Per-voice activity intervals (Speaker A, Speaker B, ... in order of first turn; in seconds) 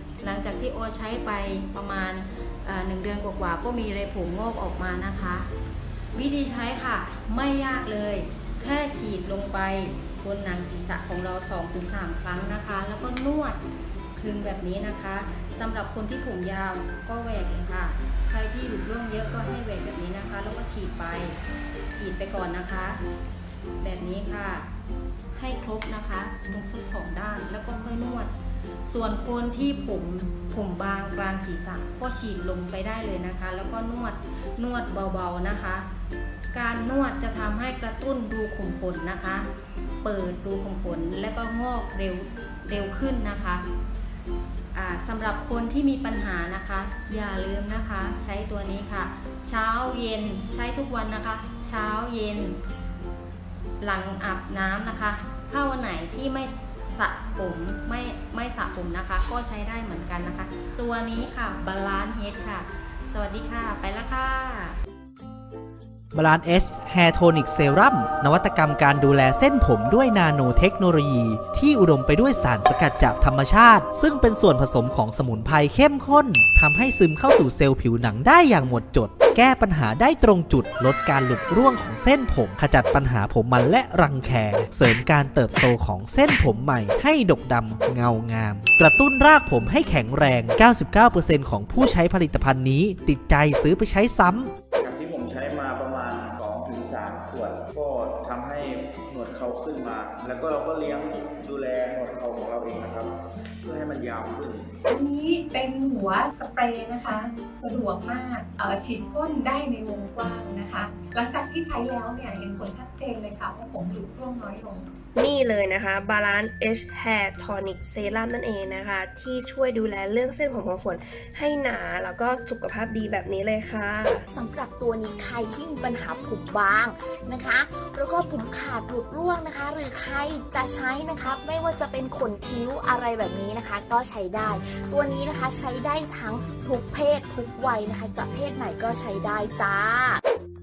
Speaker A: 0.2-5.5, 6.1-13.6, 14.2-21.4, 21.9-23.0, 23.8-24.7, 25.3-28.3, 28.9-35.9, 36.5-39.5, 40.0-43.6, 44.7-52.6, 53.8-64.7
Speaker B: 66.1-94.5
Speaker C: 94.8-103.1, 103.6-104.7
Speaker D: 104.9-114.8
Speaker E: 115.2-124.2
Speaker F: 124.3-140.2